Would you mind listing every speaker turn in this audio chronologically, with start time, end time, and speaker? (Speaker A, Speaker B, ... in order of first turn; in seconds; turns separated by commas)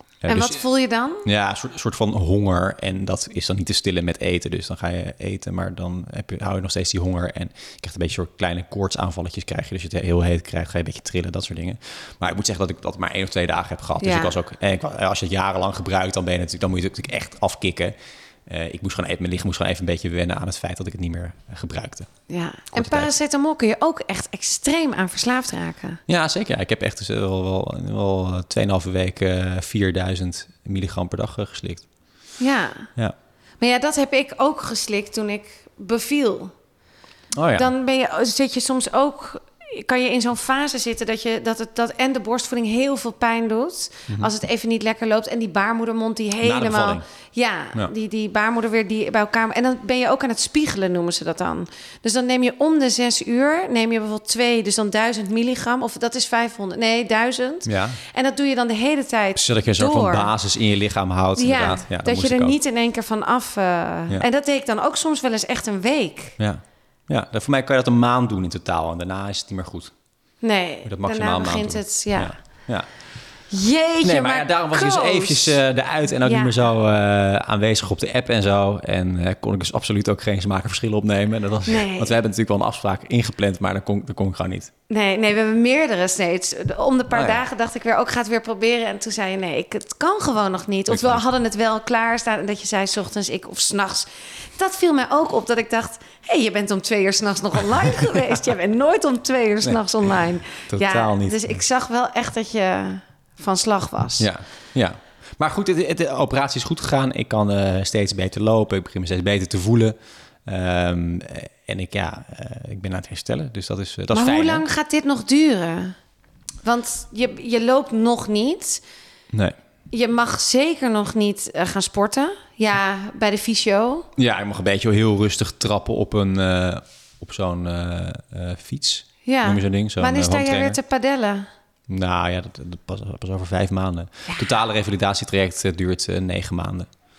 Speaker A: 0.2-0.6, Speaker B: 0.3-1.3, Speaker A: 1.2-17.9, Speaker B: 14.0-14.4, Speaker A: 18.5-22.1, Speaker B: 22.3-26.0, Speaker A: 22.7-23.1, Speaker A: 26.1-31.9, Speaker B: 32.4-32.9, Speaker B: 33.6-36.5, Speaker A: 37.4-37.7, Speaker B: 37.5-60.3, Speaker A: 46.4-47.0, Speaker A: 57.7-58.0, Speaker A: 59.4-62.6, Speaker B: 61.4-66.4, Speaker A: 66.4-69.9, Speaker B: 70.4-72.3, Speaker A: 70.8-72.9, Speaker B: 73.5-75.6, Speaker A: 74.0-84.7, Speaker B: 76.2-76.7, Speaker B: 81.7-82.2, Speaker B: 84.9-104.3, Speaker A: 87.1-87.4, Speaker A: 90.9-91.2, Speaker A: 100.7-101.5, Speaker A: 104.2-114.7, Speaker B: 114.1-116.0, Speaker B: 116.6-118.8, Speaker B: 119.9-124.1, Speaker A: 124.2-130.8, Speaker B: 129.2-131.5, Speaker A: 131.9-136.9